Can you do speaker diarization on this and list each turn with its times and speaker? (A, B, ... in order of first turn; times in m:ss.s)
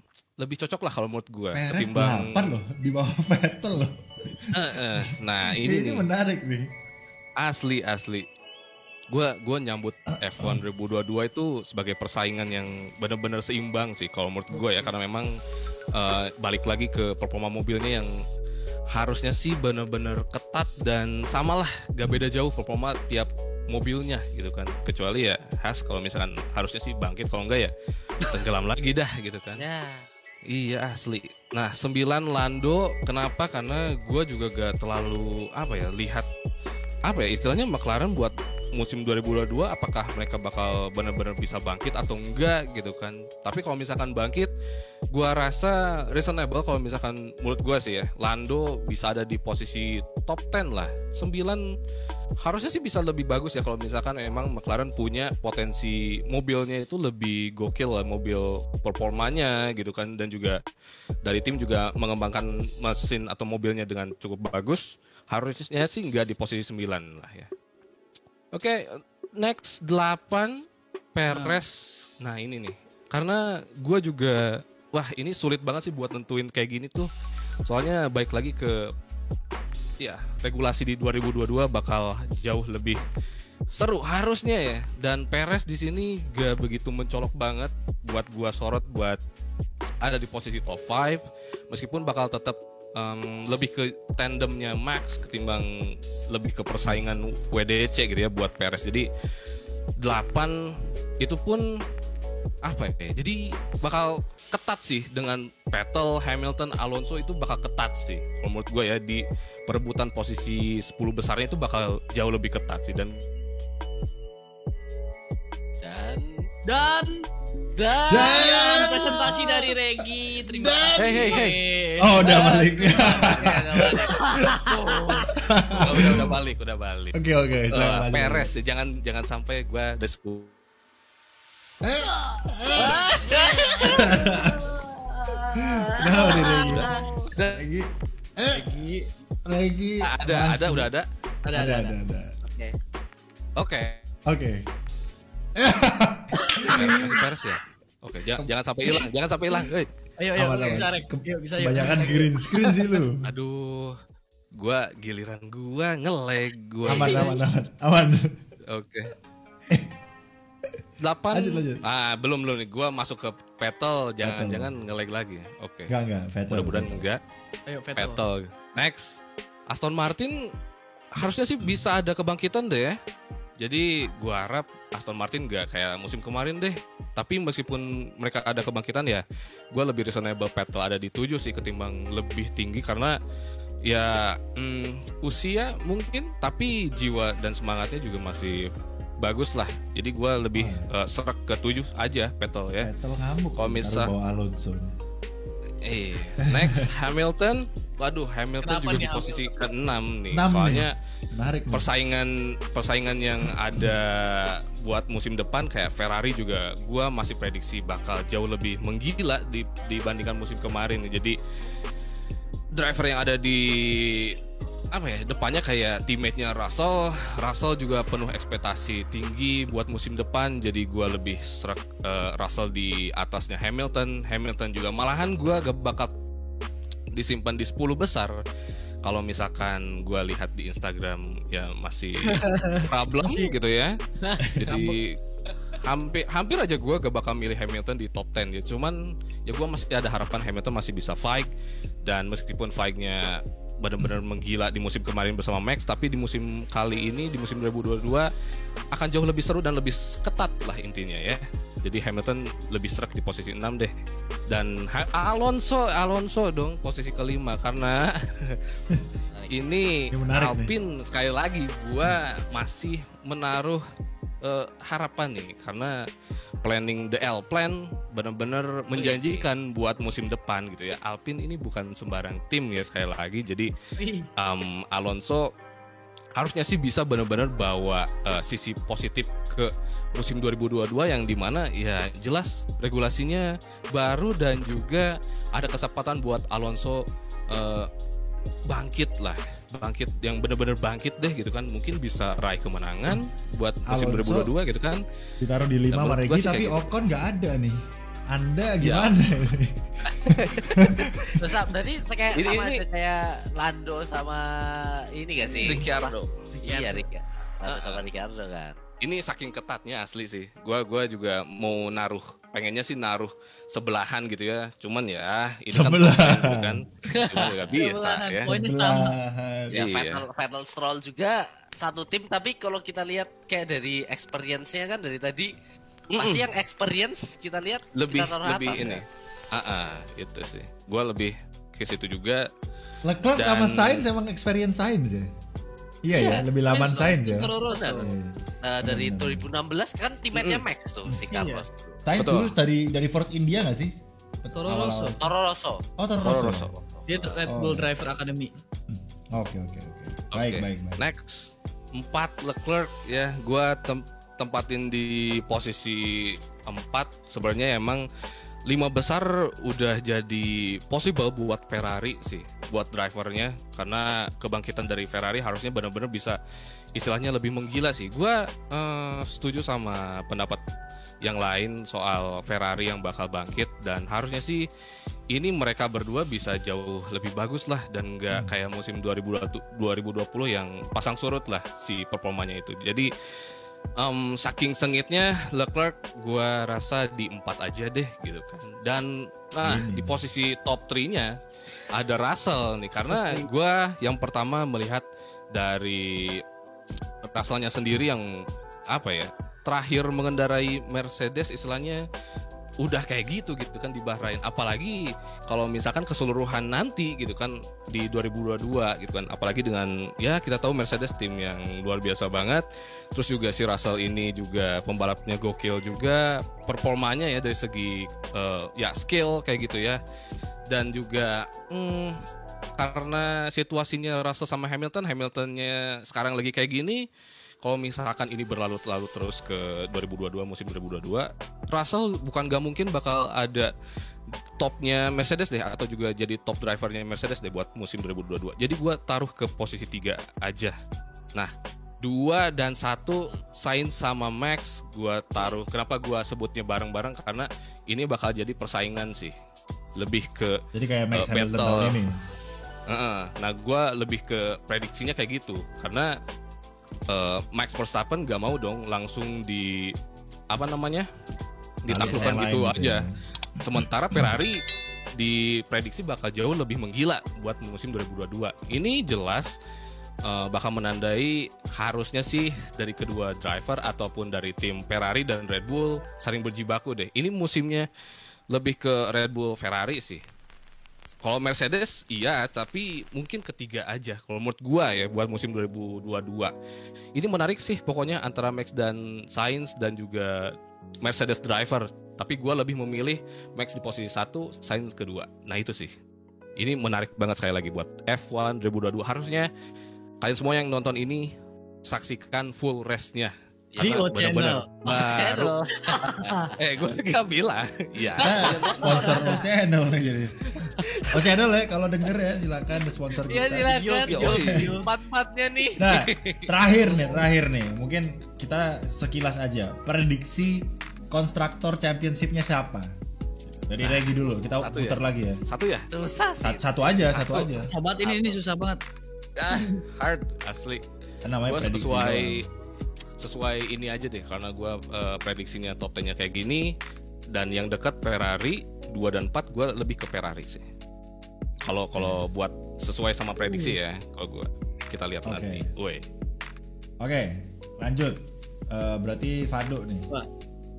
0:00.4-0:02.5 A
0:01.5-0:06.7 B
0:04.5-0:06.0 A
0:07.4-0:08.3 A
0:09.1-0:15.3 A
0:10.2-0:10.6 B
0:15.9-0:18.1 A
0:18.9-0:29.6 A
0:29.6-0:30.0 C
0:30.5-0:36.3 A
0:37.0-0:44.5 A
0:45.1-0:51.7 A
0:52.4-1:00.6 A
1:01.2-1:07.5 A
1:08.5-1:17.1 A
1:11.3-1:11.6 D
1:17.6-1:18.9 A
1:20.0-1:23.0 A
1:23.7-1:29.2 A
1:30.0-1:39.1 A
1:40.0-1:41.7 A
1:42.6-1:53.2 A
1:55.8-1:56.4 C
1:56.6-1:57.1 D
1:57.8-1:59.6 C
1:58.1-1:59.4 B
1:58.2-2:02.7 D
2:00.4-2:01.4 B
2:01.0-2:01.6 A
2:02.0-2:04.5 B
2:02.2-2:05.4 C
2:03.8-2:04.8 D
2:05.3-2:06.4 B
2:05.8-2:07.2 A
2:05.9-2:06.2 C
2:07.1-2:08.5 B
2:07.7-2:10.5 A
2:11.8-2:14.6 B
2:12.7-2:17.3 C
2:15.6-2:16.9 B
2:16.2-2:17.0 D
2:16.6-2:17.6 A
2:17.5-2:18.8 B
2:18.5-2:19.1 D
2:19.4-2:20.9 B
2:20.0-2:21.1 A
2:21.4-2:22.0 D
2:21.5-2:22.4 B
2:22.4-2:22.8 C
2:23.6-2:24.0 A
2:24.2-2:24.6 B
2:25.6-2:27.0 B
2:26.4-2:27.2 D
2:26.6-2:29.9 A
2:30.2-2:33.0 D
2:30.4-2:33.2 B
2:33.2-2:34.0 A
2:34.5-2:37.4 A
2:36.8-2:38.3 B
2:37.0-2:37.3 D
2:38.7-2:39.1 A
2:41.0-2:45.9 A
2:41.3-2:41.8 B
2:44.2-2:44.8 B
2:45.9-2:47.0 B
2:46.5-2:47.2 A
2:47.7-2:48.2 D
2:48.0-2:50.5 A
2:51.2-2:53.0 A
2:53.6-3:03.2 A
3:03.8-3:12.9 A
3:10.5-3:10.9 B
3:12.7-3:15.0 B
3:13.6-3:14.1 A
3:15.8-3:21.0 A
3:16.5-3:16.8 B
3:18.6-3:19.5 D
3:20.3-3:21.9 B
3:21.7-3:31.4 A
3:23.4-3:24.0 B
3:32.7-3:34.4 A
3:34.9-3:46.1 A
3:47.1-3:48.4 A
3:49.0-3:54.0 A
3:52.2-3:53.5 D
3:54.4-3:54.8 B
3:54.5-3:55.2 A
3:54.7-3:54.9 D
3:55.8-4:01.5 A
4:02.0-4:08.3 A
4:08.9-4:13.9 A
4:14.5-4:18.6 A
4:19.3-4:19.7 C
4:19.5-4:23.8 A
4:20.1-4:20.7 B
4:24.4-4:26.0 A
4:26.6-4:33.7 A
4:28.9-4:29.5 C
4:34.0-4:34.3 D
4:34.4-4:35.5 A
4:36.4-4:47.9 A
4:48.6-4:55.0 A
4:53.8-4:54.5 B
4:55.4-4:57.8 B
4:55.9-4:56.8 A
4:58.3-5:01.4 B
4:58.8-4:59.1 A
5:00.0-5:01.3 A
5:01.4-5:06.1 C
5:02.3-5:02.8 A
5:05.6-5:06.4 A
5:06.5-5:07.0 D
5:06.6-5:08.8 C
5:07.6-5:08.0 A
5:09.0-5:18.5 A
5:15.7-5:16.8 B
5:17.1-5:17.7 C
5:17.7-5:19.1 D
5:18.5-5:19.7 B
5:19.7-5:20.2 A
5:19.7-5:25.5 C
5:26.1-5:26.4 A
5:26.2-5:29.0 C
5:27.9-5:32.5 A
5:33.0-5:35.3 B
5:33.4-5:34.0 A
5:36.0-5:39.5 B
5:36.1-5:38.1 C
5:36.7-5:38.1 D
5:38.6-5:42.0 C
5:40.3-5:40.6 A
5:41.3-5:41.6 D
5:42.0-5:45.3 B
5:42.2-5:42.5 A
5:44.5-5:45.2 D
5:45.2-5:45.8 C
5:46.0-5:46.7 B
5:46.2-5:46.8 A
5:47.1-5:48.5 D
5:47.5-5:47.9 B
5:48.9-5:51.0 B
5:50.3-5:58.0 A
5:58.6-6:06.4 A
6:07.0-6:10.6 A
6:11.2-6:14.7 A
6:15.3-6:23.1 A
6:24.0-6:31.4 A
6:29.6-6:30.2 B
6:31.9-6:36.4 A
6:33.1-6:33.5 D
6:37.2-6:42.0 A
6:42.8-7:00.0 A
7:00.7-7:02.2 A
7:02.8-7:07.0 A
7:07.6-7:13.7 A
7:14.6-7:20.7 A
7:21.3-7:29.3 A
7:25.4-7:25.6 C
7:30.0-7:30.6 A
7:30.7-7:32.2 B
7:31.1-7:32.0 A
7:32.9-7:36.1 A
7:37.1-7:39.9 A
7:40.5-7:41.1 A
7:41.8-7:43.1 A
7:41.9-7:43.1 B
7:42.0-7:42.4 C
7:43.6-7:44.6 A
7:43.7-7:44.3 B
7:45.2-7:49.5 A
7:50.2-7:57.9 A
7:58.5-8:00.2 A
8:01.2-8:06.5 A
8:07.2-8:15.9 A
8:16.6-8:19.5 A
8:20.2-8:21.3 A
8:21.8-8:25.5 A
8:23.7-8:24.1 C
8:23.8-8:24.7 D
8:24.8-8:26.6 C
8:25.8-8:26.5 D
8:26.6-8:29.1 A
8:28.2-8:29.3 C
8:28.2-8:33.7 B
8:28.8-8:29.4 D
8:30.6-8:31.1 A
8:33.2-8:36.0 C
8:33.6-8:34.9 D
8:34.1-8:34.6 A
8:34.3-8:34.6 B
8:35.8-8:42.9 B
8:35.9-8:36.5 A
8:36.8-8:37.2 D
8:43.6-8:45.4 B
8:43.8-8:45.9 A
8:45.9-8:47.1 C
8:46.4-8:47.7 B
8:47.1-8:47.5 A
8:47.7-8:48.8 D
8:48.0-8:48.3 A
8:49.4-8:50.8 A
8:49.5-8:49.8 D
8:51.2-8:52.4 B
8:51.4-8:52.5 A
8:53.2-8:56.7 A
8:57.3-9:00.6 A
9:01.6-9:06.0 A
9:02.0-9:02.2 B
9:03.4-9:03.7 D
9:05.2-9:05.6 B
9:07.0-9:10.1 B